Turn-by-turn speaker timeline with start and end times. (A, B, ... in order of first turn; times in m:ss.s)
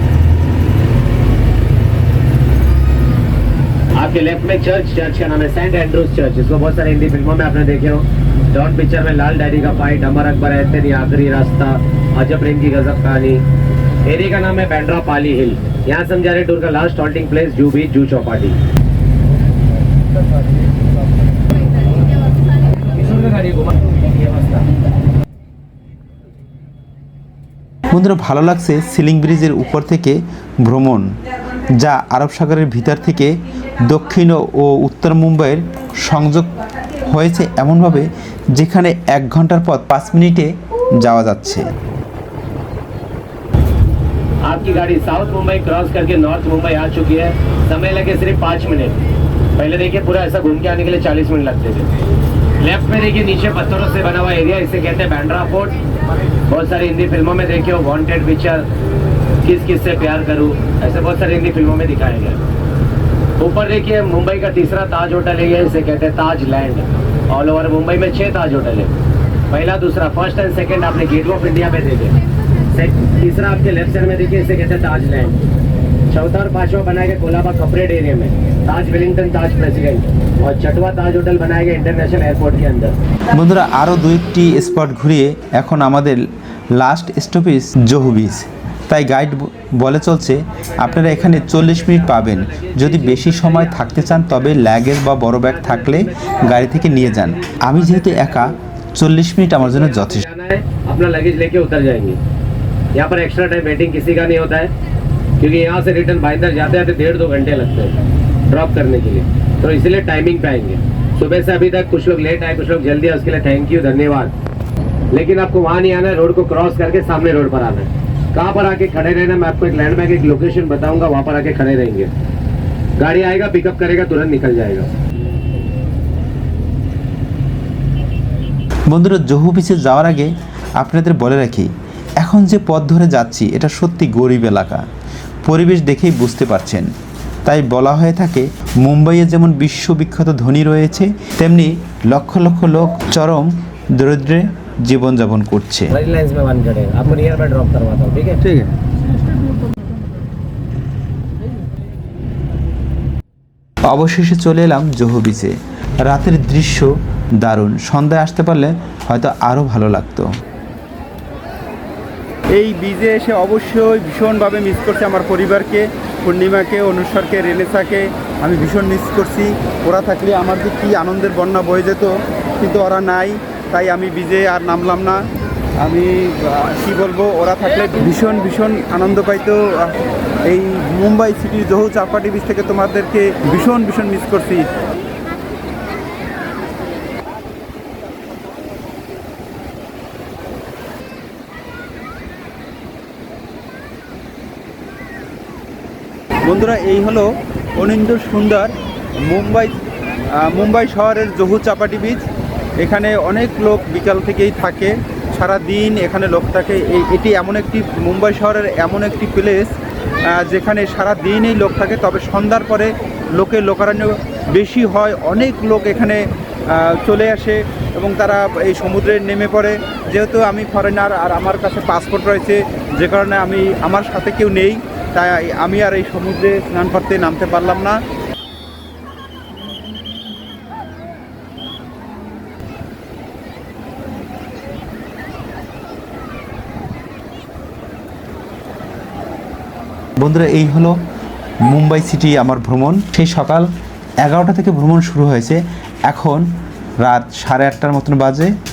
0:04.0-0:13.4 A
0:14.0-0:18.6 A
0:22.8-0:24.5 A
0:27.9-0:31.2 B
0:31.7-0:41.7 B
0:44.4-0:49.0 A
0:49.6-0:51.9 A
0:52.6-0:55.8 A
0:56.5-0:58.6 A
0:59.4-1:02.4 A
1:03.4-1:08.9 A
1:09.5-1:12.1 A
1:12.7-1:15.4 A
1:16.1-1:23.0 A
1:23.3-1:40.2 B
1:30.6-1:34.7 A
1:35.4-1:38.5 A
1:39.6-1:42.2 A
1:42.9-1:44.7 A
1:45.4-1:48.0 A
1:48.5-1:54.3 A
1:55.1-2:02.1 A
2:03.0-2:04.9 A
2:08.9-2:14.8 B
2:15.4-2:16.9 B
2:17.4-2:25.9 B
2:25.9-2:28.4 A
2:28.4-2:28.7 C
2:33.9-2:40.3 B
2:42.5-2:55.2 C
2:55.8-3:04.7 C
3:16.4-3:18.7 C
3:19.2-3:19.7 C
3:20.3-3:22.2 C
3:22.8-3:29.7 C
3:30.3-3:36.2 C
3:36.7-3:48.0 C
4:00.2-4:01.0 B
4:01.6-4:03.7 B
4:04.2-4:06.5 B
4:07.0-4:08.5 B